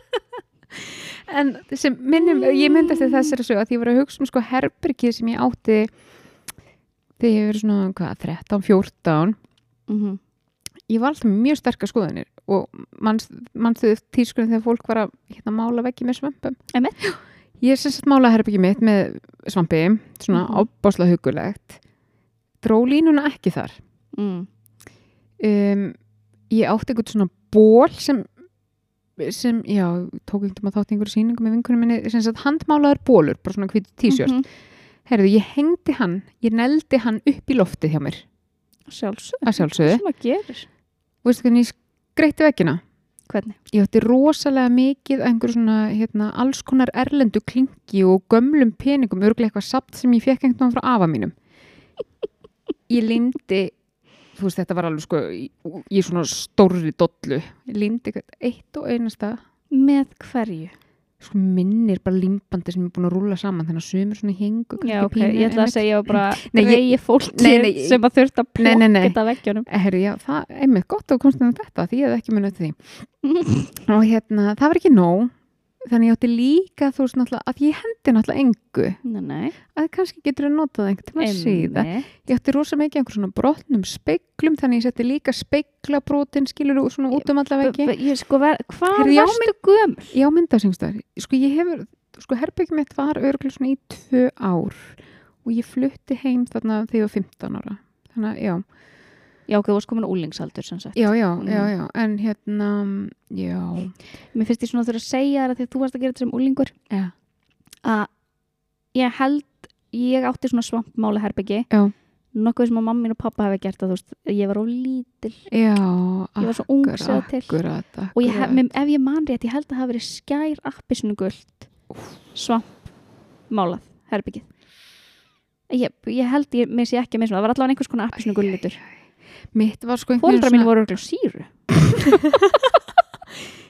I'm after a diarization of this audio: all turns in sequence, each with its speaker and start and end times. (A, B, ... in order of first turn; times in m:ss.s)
0:00.8-0:05.9 A
0:07.2-0:09.4 A
0:09.9-0:10.2 B
0:10.9-0:21.8 A
0:20.3-0:20.7 B
0:22.6-0:23.8 A
0:24.1-0:24.5 B
0:25.4-0:26.0 A
0:26.5-0:28.3 A
0:29.2-0:34.4 A
0:34.1-0:34.4 B
0:35.1-0:38.2 A
0:38.9-0:40.7 B
0:39.4-0:40.0 A
0:41.2-0:42.8 A
0:43.3-0:43.6 B
0:43.7-0:51.3 A
0:52.9-0:53.7 A
0:54.4-0:59.4 A
0:59.7-1:00.7 B
1:01.2-1:08.0 A
1:04.8-1:09.7 B
1:08.6-1:09.2 A
1:09.7-1:12.9 A
1:13.2-1:13.7 B
1:13.8-1:19.0 A
1:19.0-1:19.6 B
1:19.7-1:27.9 A
1:21.2-1:22.1 B
1:27.1-1:30.2 B
1:28.9-1:29.5 A
1:30.1-1:38.6 A
1:39.5-1:41.7 B
1:41.0-1:44.0 A
1:44.3-1:46.7 B
1:47.8-1:48.1 B
1:48.9-1:51.7 B
1:52.4-1:55.4 B
1:55.5-1:58.6 A
1:56.4-1:57.6 B
1:58.1-2:01.7 B
2:02.4-2:02.8 B
2:03.5-2:04.5 B
2:05.7-2:08.8 B
2:09.5-2:10.7 A
2:10.2-2:12.2 B
2:12.0-2:12.7 A